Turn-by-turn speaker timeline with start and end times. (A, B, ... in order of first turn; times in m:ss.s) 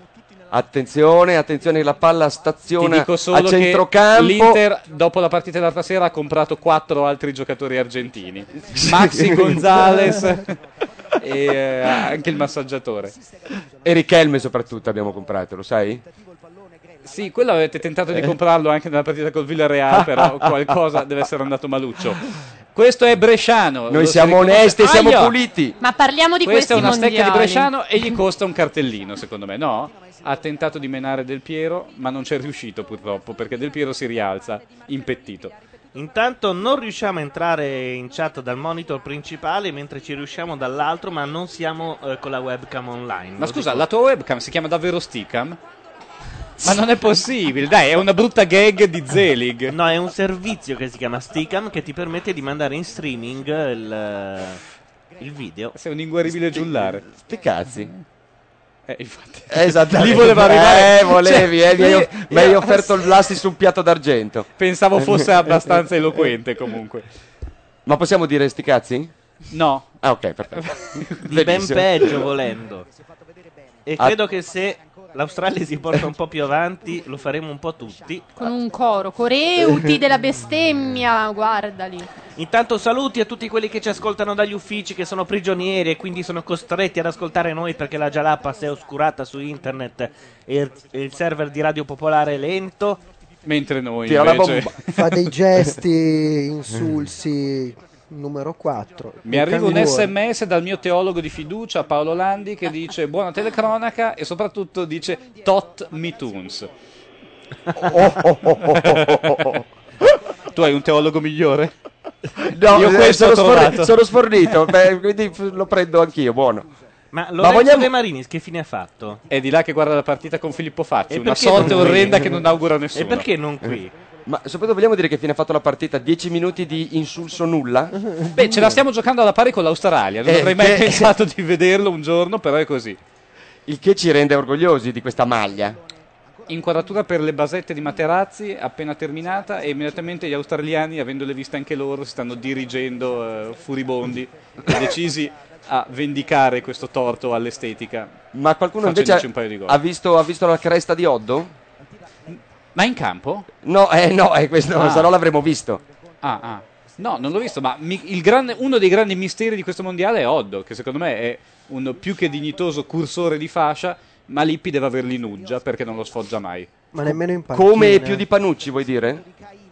0:00.5-0:04.6 A
0:02.8-0:10.5 B
0:08.8-0:10.1 A
0:11.2-0:13.1 B
0:13.8-0:16.0 A
0:17.0-0:22.2 B
0:22.7-0:25.4 B
0:23.9-0:25.8 A
0:25.8-0:27.7 C
0:26.4-0:35.5 B
0:35.9-0:43.8 D
0:43.4-0:45.6 B
0:46.6-0:49.8 B
0:49.7-0:54.6 D
0:55.2-0:55.7 D
0:55.7-0:57.0 B
0:56.5-0:57.9 A
0:58.9-1:03.1 B
0:59.5-1:05.8 A
1:04.6-1:07.0 B
1:07.8-1:09.1 A
1:09.5-1:09.9 B
1:10.0-1:12.2 A
1:10.6-1:11.2 B
1:11.2-1:12.9 D
1:13.8-1:18.3 D
1:18.4-1:22.1 C
1:22.4-1:33.0 D
1:33.4-1:35.3 B
1:34.0-1:34.7 A
1:34.9-1:40.1 E
1:39.2-1:46.7 B
1:47.8-1:49.6 A
1:48.5-1:49.6 B
1:50.5-1:51.7 B
1:52.5-1:56.7 A
1:52.7-1:53.9 B
1:57.1-1:59.2 D
1:57.4-1:57.9 A
1:59.3-2:03.3 B
2:01.1-2:02.4 D
2:01.8-2:02.3 A
2:02.9-2:03.9 D
2:04.2-2:07.9 A
2:08.0-2:08.8 E
2:08.3-2:13.0 B
2:10.2-2:11.1 A
2:13.7-2:15.8 A
2:16.5-2:28.1 B
2:28.3-2:31.5 A
2:28.8-2:29.8 B
2:32.3-2:33.4 B
2:33.6-2:35.8 A
2:34.8-2:35.1 B
2:36.2-2:46.7 B
2:46.9-2:48.2 E
2:47.1-2:49.2 A